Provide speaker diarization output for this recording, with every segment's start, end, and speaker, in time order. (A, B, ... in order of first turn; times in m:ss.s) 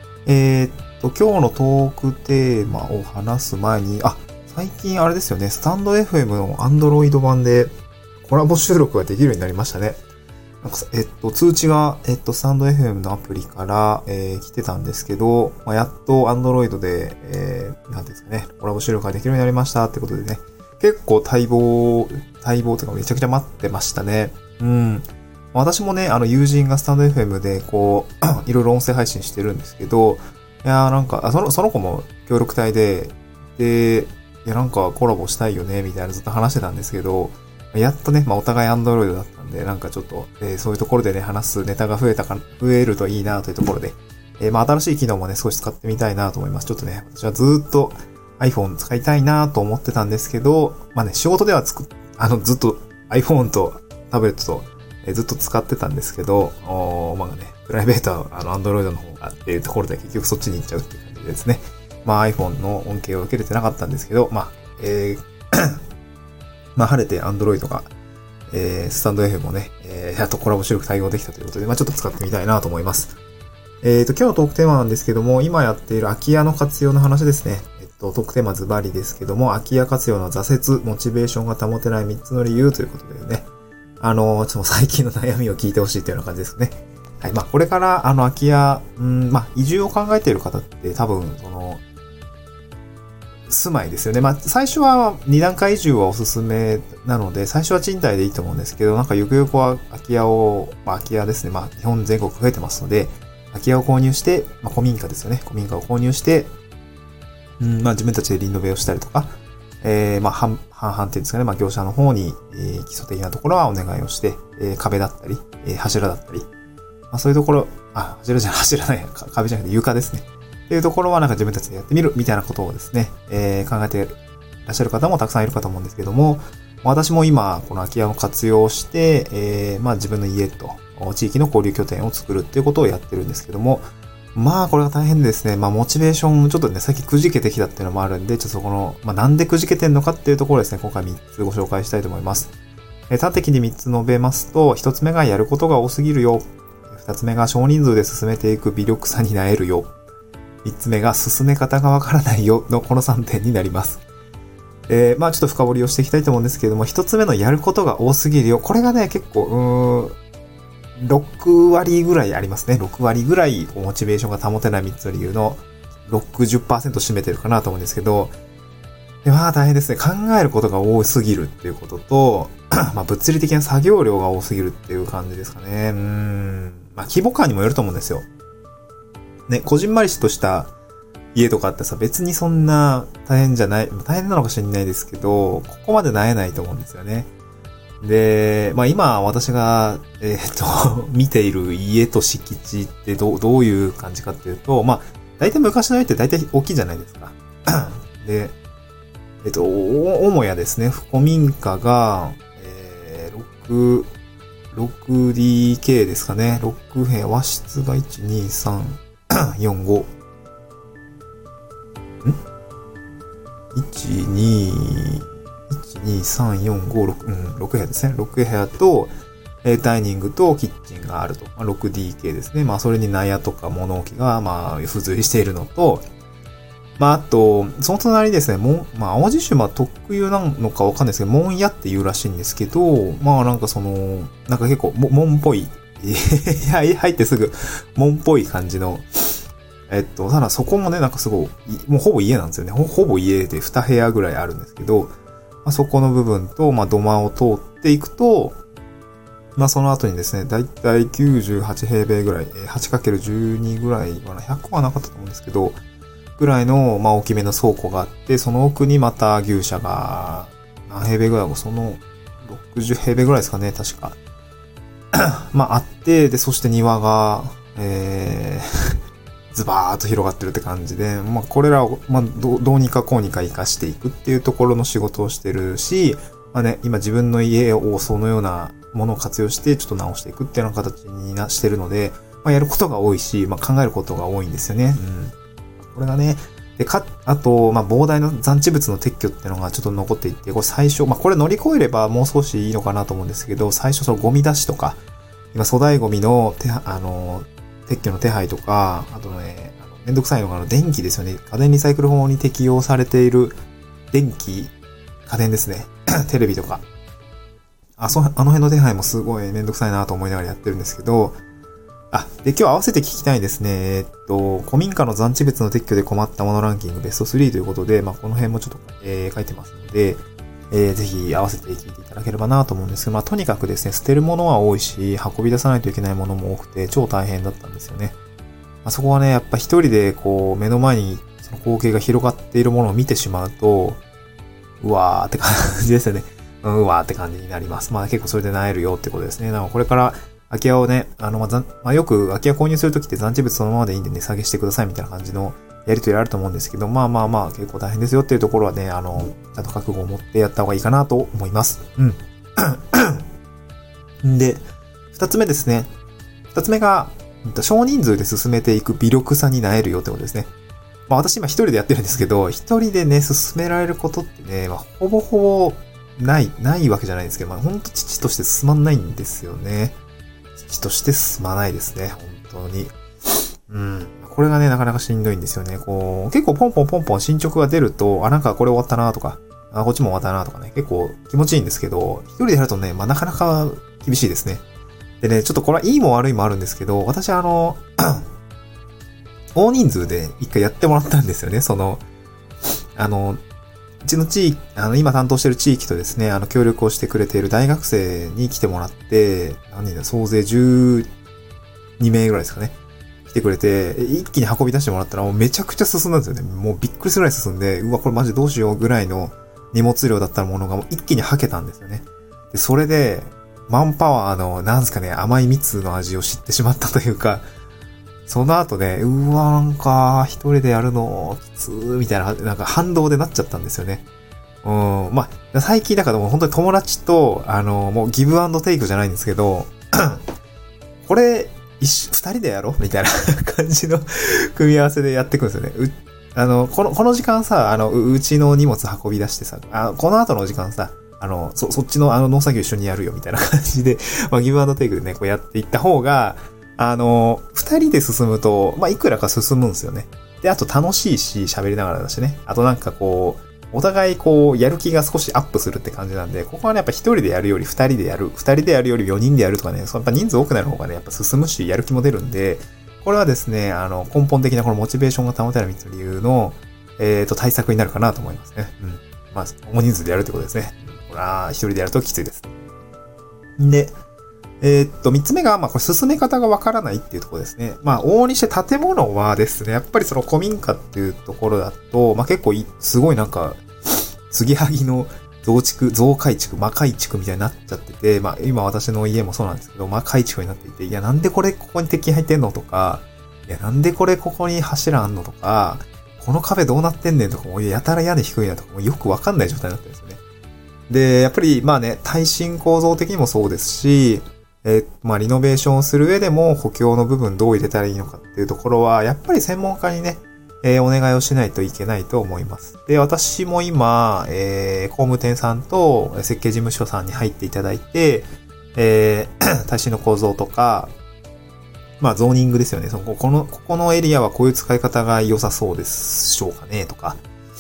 0:00.2-0:07.7 A
0:08.2-0:10.0 A
0:10.6-1:05.8 A
1:06.8-1:07.9 A
1:08.5-1:13.1 A
1:13.8-1:23.5 A
1:24.0-1:31.8 A
1:33.5-1:46.5 A
1:47.6-1:56.5 A
1:57.1-2:22.5 A
2:23.1-2:29.9 A
2:30.6-2:34.0 A
2:34.9-2:40.2 A
2:41.0-2:48.3 A
2:49.2-2:58.2 A
2:59.5-3:00.7 A
3:01.3-3:07.3 A
3:08.0-3:18.5 A
3:19.4-3:24.1 A
3:24.7-3:30.1 A
3:33.7-3:46.0 A
3:47.0-4:05.1 A
4:05.6-4:08.6 A
4:09.6-4:15.8 A
4:16.4-4:24.2 A
4:25.1-4:29.0 A
4:29.5-4:55.0 A
4:55.5-5:03.6 A
5:04.1-5:04.7 A
5:05.2-5:06.8 A
5:08.0-5:11.4 A
5:12.1-5:28.2 A
5:28.8-5:34.0 A
5:34.8-5:53.2 A
5:54.2-5:55.9 A
5:56.5-6:00.5 A
6:01.1-6:10.0 A
6:10.6-6:24.6 A
6:25.2-6:28.2 A
6:29.5-6:32.0 A
6:33.0-6:33.4 A
6:34.0-6:41.1 A
6:42.0-6:42.7 A
6:43.3-6:57.4 A
6:58.3-7:04.0 A
7:04.6-7:10.2 A
7:11.0-7:52.5 A
7:53.6-7:54.0 A
7:54.6-8:20.2 A
8:20.9-8:40.9 A
8:42.0-8:47.2 A